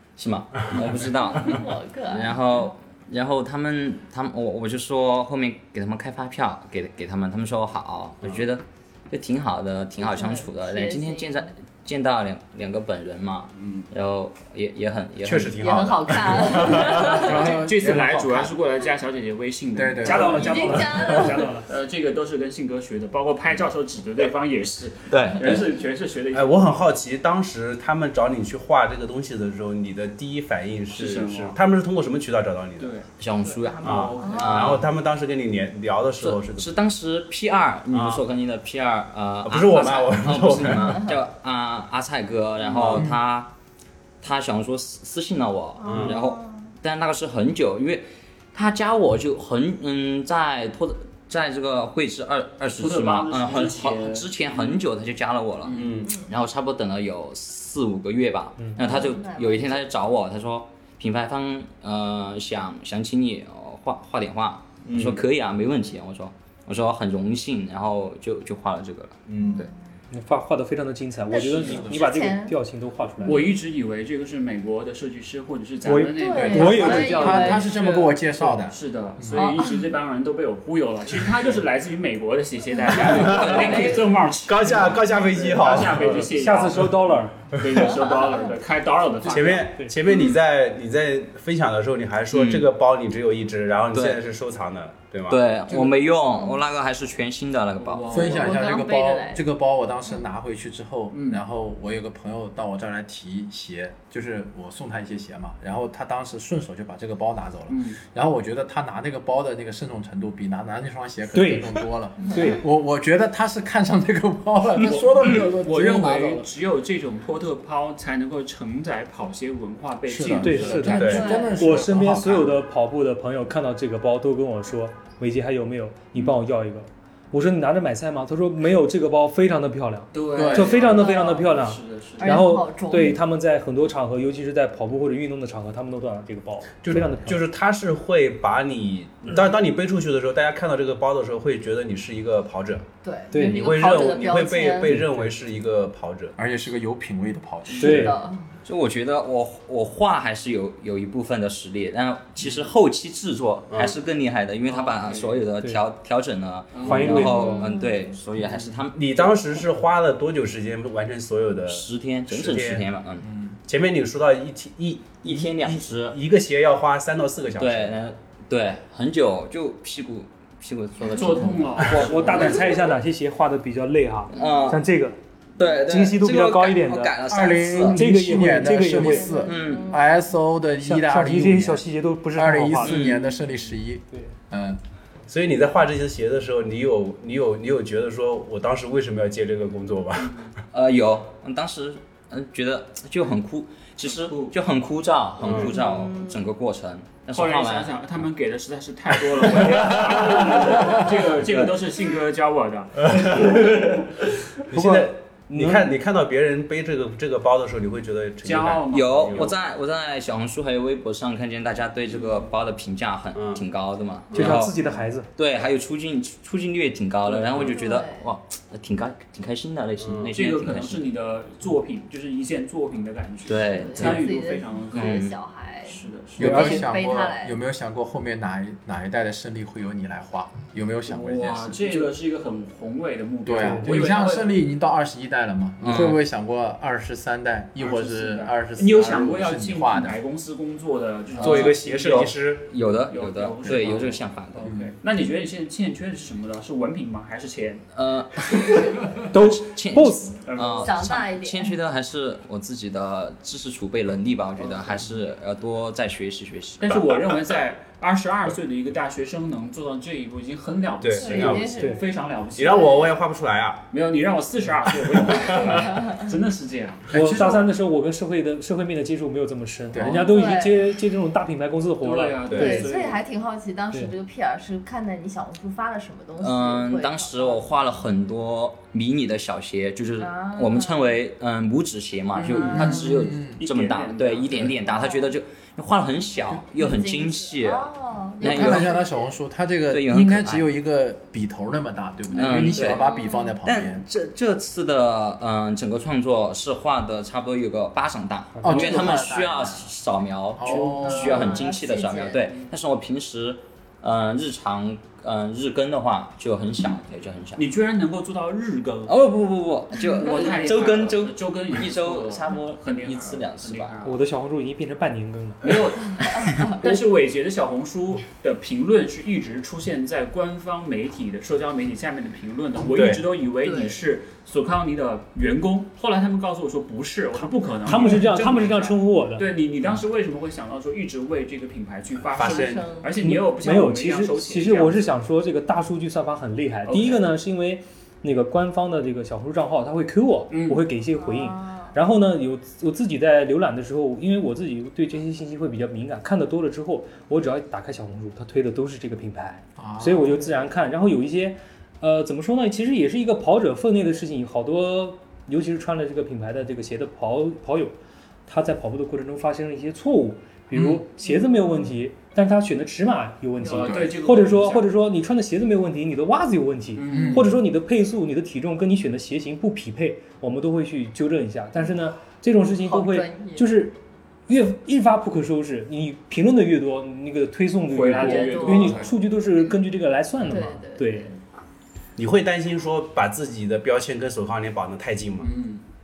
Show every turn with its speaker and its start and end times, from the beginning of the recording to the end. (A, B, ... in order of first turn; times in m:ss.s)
0:00.2-0:15.7 A
0:00.7-0:01.1 B
0:01.4-0:02.4 C
0:10.0-0:11.5 C
0:13.6-0:13.8 B
0:15.2-0:17.3 B
0:15.6-0:17.5 C
0:16.8-0:26.9 D
0:17.1-0:18.5 E
0:19.8-0:20.6 E
0:20.0-0:21.7 F
0:20.2-0:21.5 C
0:25.1-0:25.6 A
0:26.3-0:32.9 B
0:30.9-0:31.6 D
0:32.8-0:33.1 D
0:33.2-0:34.8 A
0:33.6-0:34.6 C
0:33.8-0:36.7 B
0:33.9-0:34.8 D
0:36.2-0:43.5 A
0:37.9-0:38.2 B
0:39.4-0:41.2 B
0:42.6-0:43.0 D
0:42.7-0:43.1 B
0:44.2-1:09.2 A
0:45.8-0:46.7 C
0:45.8-0:46.2 B
0:52.8-0:54.8 D
0:55.6-0:55.9 D
0:55.7-0:56.2 B
0:58.6-0:58.8 F
0:58.8-0:59.9 C
1:04.9-1:05.2 B
1:09.3-1:09.7 B
1:10.1-1:13.5 F
1:11.3-1:12.6 C
1:11.4-1:11.9 D
1:11.6-1:12.1 E
1:13.2-1:17.4 D
1:15.8-1:17.7 F
1:16.2-1:18.2 C
1:16.4-1:19.6 E
1:18.7-1:29.7 D
1:19.4-1:19.9 C
1:23.2-1:23.8 B
1:23.2-1:24.1 C
1:24.5-1:26.2 B
1:26.0-1:27.4 F
1:29.2-1:35.4 B
1:32.3-1:32.6 A
1:33.9-1:34.2 A
1:35.3-1:38.4 A
1:37.8-1:38.6 D
1:38.1-1:56.5 E
1:38.2-1:39.4 C
1:41.1-1:41.4 D
1:47.7-1:48.0 D
1:51.3-1:52.6 F
1:52.3-1:52.6 C
1:54.8-2:01.6 D
2:00.1-2:02.6 E
2:00.4-2:17.4 F
2:01.0-2:01.3 B
2:01.1-2:01.7 C
2:10.1-2:12.4 D
2:10.3-2:10.8 E
2:10.8-2:11.5 C
2:12.2-2:13.2 C
2:16.8-2:22.8 B
2:23.0-2:25.0 C
2:23.3-2:23.9 F
2:23.4-2:26.4 B
2:24.9-2:25.2 F
2:26.4-2:28.2 E
2:27.7-2:28.4 C
2:27.8-2:28.2 F
2:28.6-2:39.4 A
2:33.7-2:34.0 B
2:34.7-2:35.4 D
2:36.7-2:37.3 D
2:36.8-2:37.6 F
2:37.2-2:38.0 C
2:38.9-2:42.9 B
2:41.7-2:43.3 A
2:43.2-2:43.6 E
2:43.7-2:48.0 B
2:45.2-2:46.2 A
2:47.6-2:52.6 A
2:51.1-2:52.6 D
2:51.8-2:55.2 F
2:54.3-2:54.8 A
2:54.4-2:54.7 C
2:55.6-2:58.0 A
2:55.8-2:57.2 F
2:57.3-3:04.8 E
2:57.9-2:59.4 F
2:58.7-3:00.1 C
2:59.4-3:00.0 A
3:00.8-3:03.0 F
3:02.8-3:03.4 A
3:05.3-3:10.5 B
3:10.2-3:10.5 D
3:10.7-3:18.0 A
3:14.0-3:14.6 D
3:15.4-3:15.7 B
3:15.7-3:16.4 C
3:17.3-3:23.8 D
3:23.0-3:24.1 B
3:24.7-3:29.5 B
3:24.7-3:25.8 F
3:28.4-3:29.6 D
3:28.9-3:34.7 A
3:32.1-3:32.4 D
3:33.4-3:33.6 B
3:34.3-3:34.6 B
3:34.4-3:35.3 F
3:35.4-3:41.0 A
3:37.3-3:37.8 D
3:37.6-3:38.3 C
3:40.0-3:40.3 B
3:40.3-3:45.3 D
3:43.5-3:44.4 A
3:43.7-3:47.6 C
3:44.9-3:45.4 A
3:45.8-3:46.7 D
3:46.4-3:52.2 E
3:46.4-3:46.8 F
3:51.1-3:54.6 D
3:53.4-4:00.2 E
3:53.6-3:54.3 F
3:55.8-3:56.2 A
3:57.8-4:02.3 D
4:01.4-4:02.7 B
4:01.4-4:04.7 A
4:03.1-4:07.9 D
4:04.6-4:05.0 E
4:07.9-4:17.0 A
4:09.2-4:10.4 F
4:10.4-4:11.0 D
4:10.8-4:11.8 C
4:16.8-4:23.0 D
4:21.0-4:22.0 B
4:21.2-4:22.0 C
4:22.6-4:23.9 B
4:23.9-4:27.2 D
4:25.1-4:26.0 B
4:26.0-4:26.2 C
4:27.1-4:32.9 F
4:27.1-4:27.6 E
4:29.9-4:30.4 E
4:30.0-4:30.9 C
4:32.0-4:33.2 D
4:32.5-4:32.9 B
4:32.5-4:37.6 C
4:36.4-4:49.0 A
4:40.2-4:41.1 C
4:42.3-4:44.9 D
4:42.5-4:43.1 C
4:42.7-4:43.6 E
4:44.8-4:45.3 C
4:46.7-4:49.3 C
4:48.4-4:54.0 E
4:49.9-4:50.7 A
4:52.3-5:07.6 A
4:52.6-4:53.6 C
4:58.5-4:59.1 F
4:58.6-4:59.7 E
5:00.6-5:01.6 E
5:00.8-5:02.6 C
5:07.6-5:09.2 D
5:09.1-5:14.0 A
5:10.2-5:14.2 D
5:14.0-5:15.8 F
5:15.6-5:35.1 D
5:22.9-5:23.2 B
5:23.6-5:24.0 C
5:27.4-5:29.5 F
5:32.3-5:32.9 B
5:32.4-5:33.1 C
5:33.2-5:58.0 F
5:36.9-5:37.3 D
5:40.5-5:40.8 D
5:41.2-5:41.9 C
5:49.8-5:50.5 E
5:58.5-6:21.3 F
6:00.7-6:01.0 E
6:03.6-6:04.9 D
6:03.7-6:04.2 E
6:07.0-6:07.5 D
6:07.1-6:07.5 E
6:12.6-6:13.8 C
6:17.9-6:19.1 D
6:18.2-6:19.1 C
6:20.5-6:21.3 C
6:22.2-6:25.5 B
6:25.4-6:25.8 D